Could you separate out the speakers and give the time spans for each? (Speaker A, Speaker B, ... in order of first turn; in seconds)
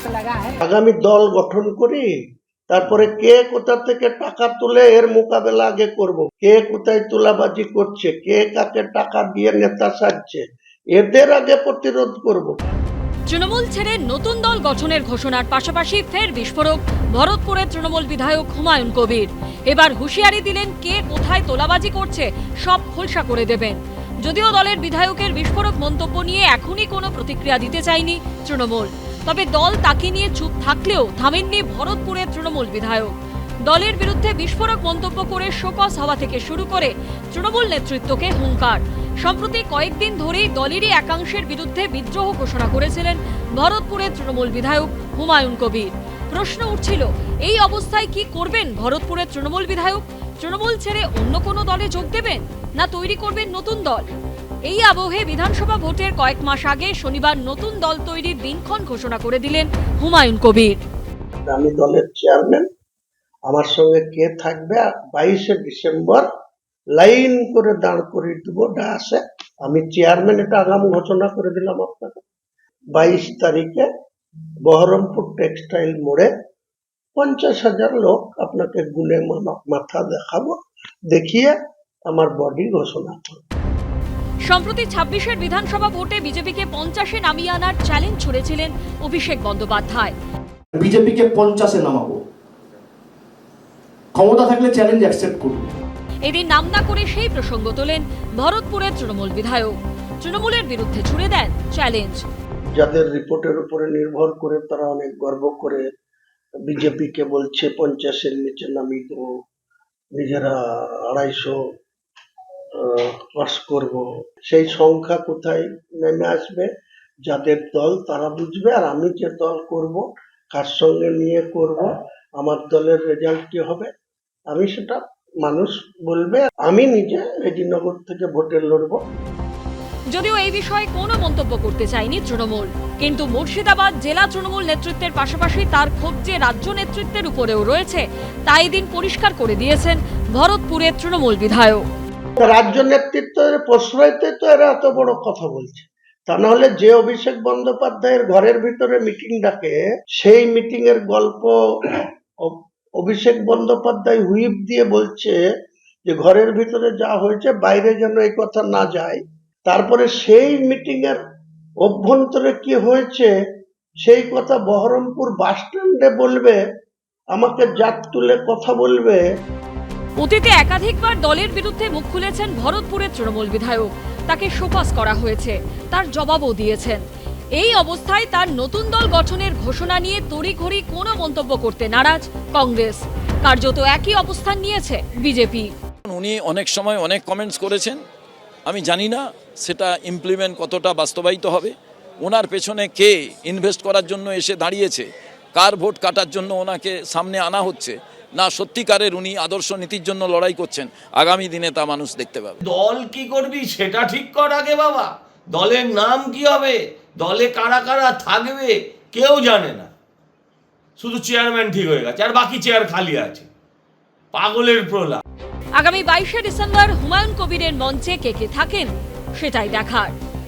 Speaker A: 0.6-2.2, 2.7-12.6, 61.5-62.7, 63.5-66.2, 67.0-72.2, 72.9-73.9, 74.7-76.3, 77.2-80.6, 81.1-81.5, 82.1-83.4, 102.8-105.8, 106.7-109.2, 110.2-111.6, 112.8-116.7, 117.3-123.9, 124.5-129.0, 142.4-155.4, 156.1-161.2, 161.8-163.3, 164.0-166.6, 167.3-169.2
Speaker B: 13.3-54.1, 54.6-60.8, 84.5-90.1, 96.2-102.2, 130.1-141.8, 170.2-177.0, 177.6-185.7, 215.8-220.1
Speaker C: 90.8-92.2, 94.1-95.8
Speaker D: 186.1-188.0, 188.7-202.6
Speaker E: 202.7-209.9, 211.0-213.4, 214.3-215.2